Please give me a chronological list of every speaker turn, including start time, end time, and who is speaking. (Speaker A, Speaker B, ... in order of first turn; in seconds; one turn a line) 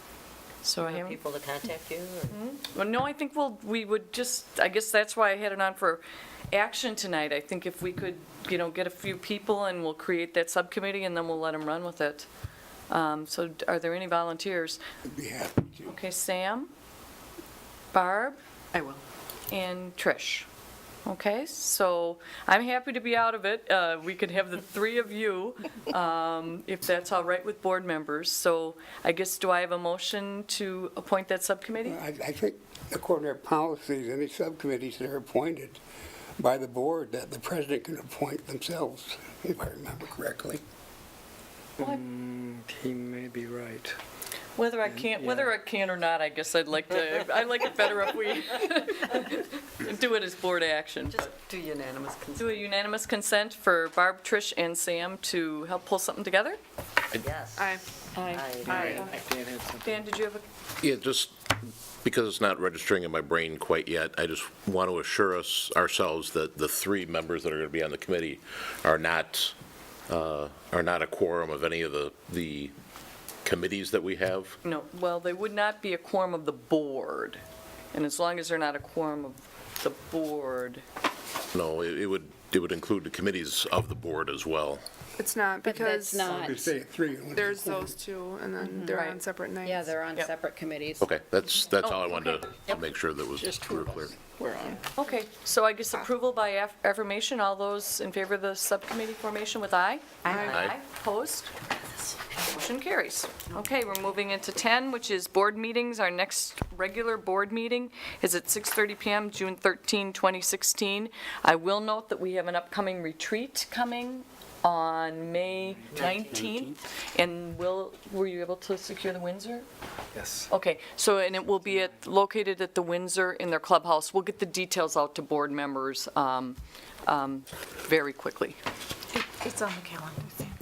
Speaker A: 0.6-1.2
Speaker B: 0.8-2.4
Speaker A: 2.3-12.3
Speaker A: 12.9-14.8
Speaker C: 15.1-16.0
Speaker A: 15.8-16.7
Speaker A: 17.9-18.4
Speaker A: 19.5-20.5
Speaker A: 21.0-32.0
Speaker C: 31.8-35.8
Speaker C: 36.4-40.6
Speaker D: 41.8-44.0
Speaker A: 44.5-51.3
Speaker D: 44.8-45.5
Speaker E: 51.2-52.3
Speaker B: 51.8-52.4
Speaker A: 52.4-56.6
Speaker E: 57.2-57.7
Speaker A: 58.1-59.1
Speaker E: 58.4-59.0
Speaker D: 58.6-60.0
Speaker A: 59.8-60.4
Speaker F: 60.8-69.5
Speaker F: 70.1-72.7
Speaker F: 73.4-74.6
Speaker A: 74.6-77.4
Speaker A: 77.9-80.8
Speaker F: 81.5-84.8
Speaker G: 85.2-86.2
Speaker H: 85.6-86.7
Speaker C: 86.2-88.0
Speaker G: 87.3-89.7
Speaker H: 88.6-91.1
Speaker A: 88.9-89.2
Speaker F: 91.0-94.2
Speaker A: 91.8-92.4
Speaker D: 94.5-94.8
Speaker A: 95.0-101.5
Speaker F: 100.3-100.8
Speaker A: 102.5-119.7
Speaker D: 115.8-116.4
Speaker D: 120.1-120.5
Speaker A: 120.5-128.6
Speaker E: 129.4-130.3